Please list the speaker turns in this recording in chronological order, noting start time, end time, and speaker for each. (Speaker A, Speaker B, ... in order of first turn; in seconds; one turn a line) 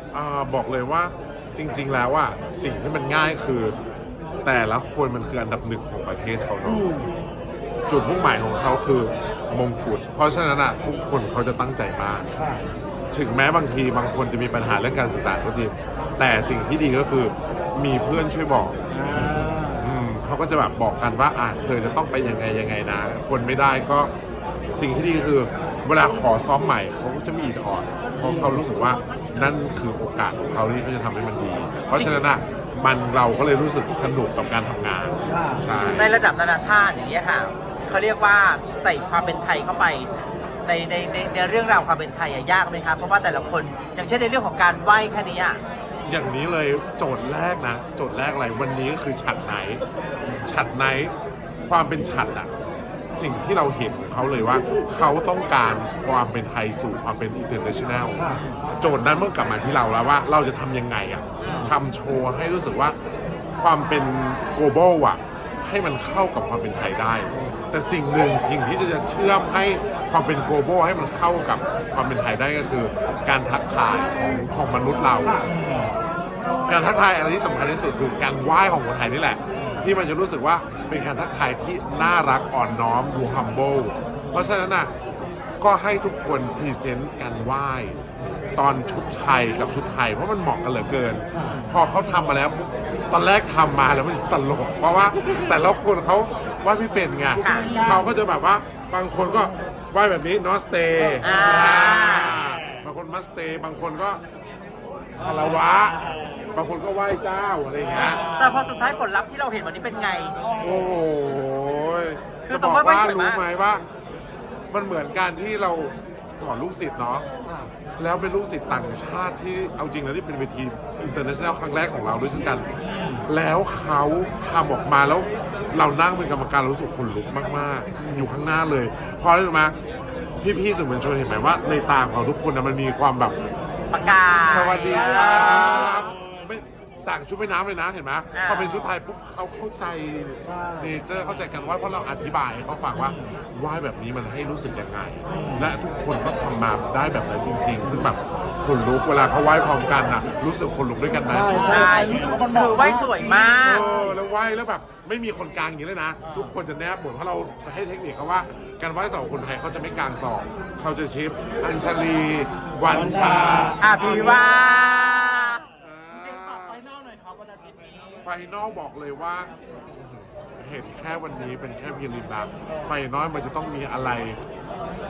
Speaker A: 0.1-3.8
Speaker A: 4.4-6.9
Speaker B: 6.7-7.2
Speaker A: 7.9-12.3
Speaker B: 12.3-12.7
Speaker A: 13.1-24.1
Speaker B: 18.9-20.0
Speaker A: 24.7-36.1
Speaker B: 28.1-28.6
Speaker B: 35.1-35.7
Speaker C: 35.9-40.1
Speaker C: 40.6-45.6
Speaker A: 46.0-49.8
Speaker A: 50.4-51.1
Speaker A: 51.7-52.5
Speaker A: 53.1-58.3
Speaker B: 58.1-58.4
Speaker A: 58.8-63.0
Speaker C: 61.4-61.7
Speaker A: 63.6-75.5
Speaker B: 75.2-75.9
Speaker A: 76.6-84.9
Speaker B: 79.6-79.8
Speaker A: 85.6-88.0
Speaker A: 88.6-104.2
Speaker B: 91.3-91.6
Speaker C: 97.4-97.8
Speaker B: 97.5-98.1
Speaker D: 97.6-98.0
Speaker C: 101.2-102.4
Speaker A: 105.2-106.0
Speaker B: 105.2-105.5
Speaker A: 106.5-108.2
Speaker D: 107.8-108.8
Speaker C: 108.3-110.4
Speaker B: 110.5-110.8
Speaker A: 110.6-113.8
Speaker C: 112.5-113.4
Speaker A: 114.7-117.2
Speaker B: 117.5-117.7
Speaker A: 118.0-122.7
Speaker B: 122.8-123.2
Speaker A: 123.2-129.8
Speaker A: 130.4-133.3
Speaker C: 133.9-135.8
Speaker A: 134.5-151.9
Speaker D: 134.9-136.1
Speaker C: 138.3-138.9
Speaker B: 140.4-140.9
Speaker B: 145.3-145.7
Speaker B: 151.3-152.3
Speaker D: 151.5-153.8
Speaker C: 151.5-153.8
Speaker A: 153.6-163.8
Speaker D: 156.2-156.5
Speaker B: 162.9-163.7
Speaker C: 163.8-165.6
Speaker A: 165.8-166.8
Speaker D: 166.1-168.2
Speaker A: 168.2-174.4